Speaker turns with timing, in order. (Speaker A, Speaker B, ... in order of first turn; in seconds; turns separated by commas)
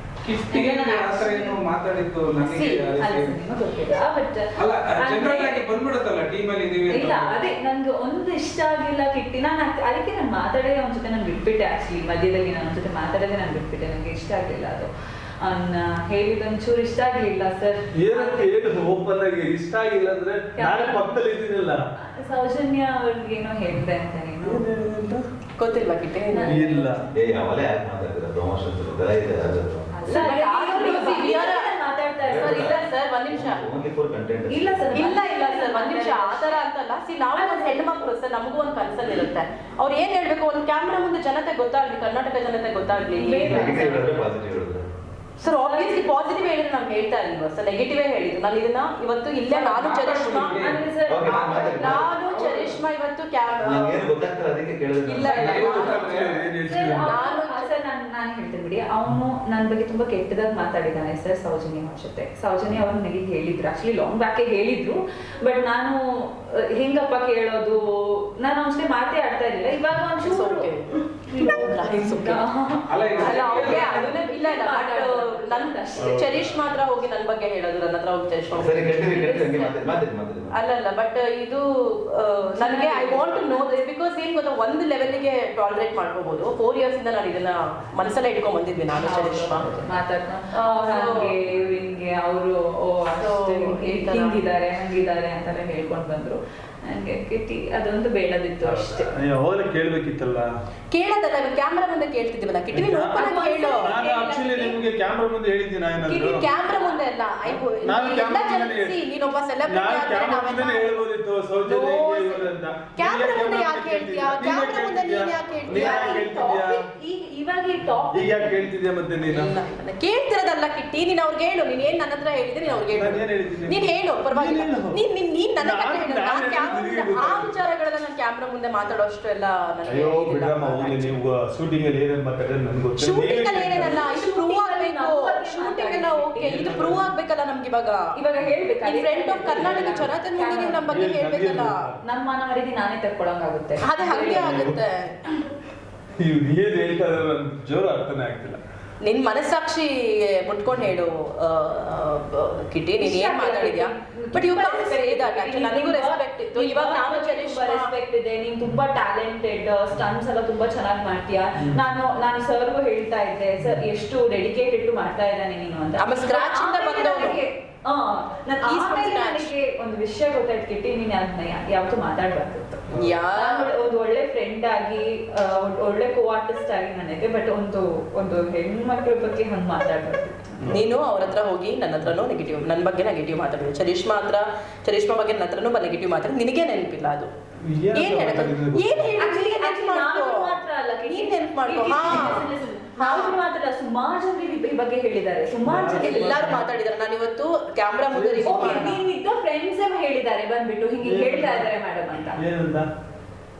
Speaker A: 0.2-3.3, Speaker B: 0.5-1.6, Speaker B: 2.4-5.7, Speaker C: 2.4-2.9, Speaker A: 4.6-7.5, Speaker B: 6.9-14.9, Speaker B: 15.4-18.6, Speaker D: 17.9-21.9, Speaker B: 20.6-21.2, Speaker B: 22.0-24.7, Speaker D: 24.4-25.3, Speaker C: 25.6-26.7, Speaker B: 26.3-26.9, Speaker D: 26.4-27.0, Speaker E: 27.1-30.2, Speaker B: 29.9-32.8, Speaker C: 30.1-31.7, Speaker E: 32.2-32.8, Speaker C: 32.4-33.6, Speaker E: 33.3-35.0, Speaker B: 34.5-36.5, Speaker C: 34.9-44.1, Speaker B: 37.3-37.9, Speaker B: 43.1-44.3, Speaker E: 43.4-44.9, Speaker C: 45.4-50.6, Speaker B: 45.5-46.1, Speaker B: 49.5-52.0, Speaker A: 49.8-52.8, Speaker E: 51.0-52.1, Speaker C: 51.7-54.1, Speaker E: 53.6-56.3, Speaker C: 55.0-56.1, Speaker D: 55.2-57.2, Speaker A: 55.2-56.4, Speaker B: 56.5-76.5, Speaker C: 57.1-57.7, Speaker C: 70.2-72.4, Speaker A: 72.9-74.1, Speaker C: 73.2-79.7, Speaker E: 78.5-80.5, Speaker B: 79.0-79.7, Speaker C: 80.5-89.7, Speaker B: 82.5-83.8, Speaker B: 89.0-99.1, Speaker C: 90.6-91.3, Speaker C: 93.2-94.4, Speaker D: 98.6-100.5, Speaker C: 100.9-104.0, Speaker D: 102.7-103.2, Speaker B: 103.1-104.8, Speaker D: 103.8-106.5, Speaker C: 106.1-111.0, Speaker B: 106.5-107.0, Speaker D: 107.5-109.0, Speaker D: 109.7-116.9, Speaker C: 111.6-116.3, Speaker B: 115.7-118.7, Speaker D: 118.1-119.5, Speaker C: 119.3-131.1, Speaker D: 122.8-125.0, Speaker D: 125.6-127.5, Speaker D: 129.9-134.1, Speaker C: 133.0-138.1, Speaker B: 134.0-136.7, Speaker D: 136.4-137.0, Speaker B: 138.2-140.9, Speaker C: 138.8-141.9, Speaker D: 139.7-139.9, Speaker D: 140.9-142.0, Speaker B: 142.1-144.7, Speaker C: 143.8-145.3, Speaker D: 144.3-144.8, Speaker D: 146.2-148.6, Speaker C: 149.0-157.9, Speaker B: 153.0-180.5, Speaker C: 166.0-167.4, Speaker C: 168.6-169.5, Speaker C: 172.9-173.7, Speaker D: 180.6-180.9, Speaker C: 180.7-187.3, Speaker D: 187.6-189.1, Speaker C: 187.9-190.6, Speaker B: 189.2-196.5, Speaker C: 191.1-192.4, Speaker C: 193.0-193.4, Speaker D: 195.7-196.7, Speaker C: 195.9-199.0, Speaker D: 198.1-199.0, Speaker B: 198.4-202.4, Speaker D: 201.0-201.7, Speaker D: 202.3-202.9